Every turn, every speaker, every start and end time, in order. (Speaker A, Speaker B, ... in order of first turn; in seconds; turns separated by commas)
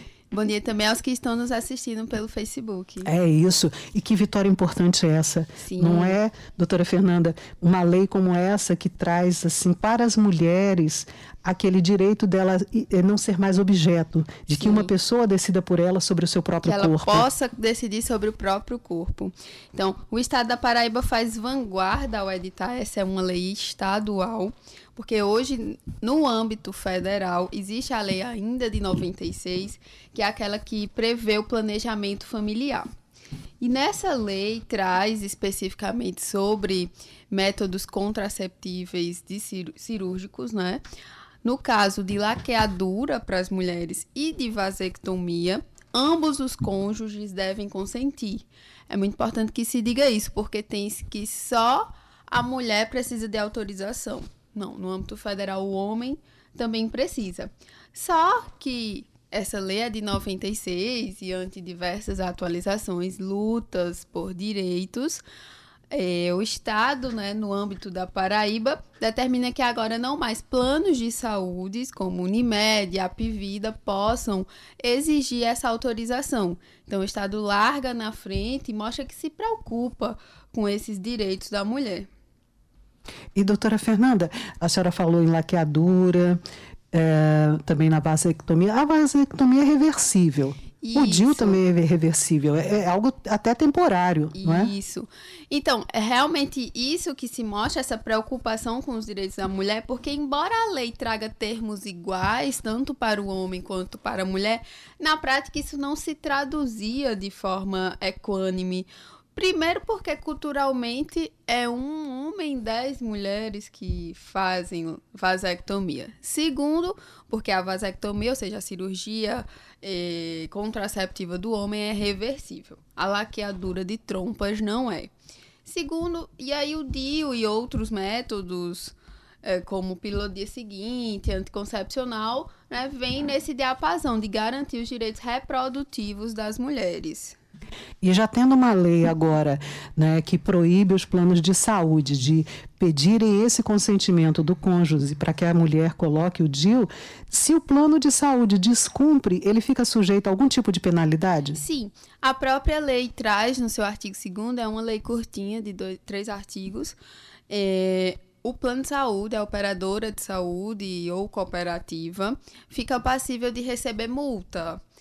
Speaker A: 0.3-3.1, Speaker B: 3.0-17.3, Speaker A: 5.6-6.2, Speaker A: 14.6-14.9, Speaker A: 16.6-32.9, Speaker A: 33.6-40.8, Speaker A: 41.4-65.2, Speaker A: 65.9-82.1, Speaker B: 83.3-86.4, Speaker B: 86.9-94.7, Speaker A: 90.8-91.6, Speaker A: 94.3-125.1, Speaker A: 125.7-137.4, Speaker B: 138.0-151.6, Speaker A: 151.5-157.0, Speaker A: 157.5-164.8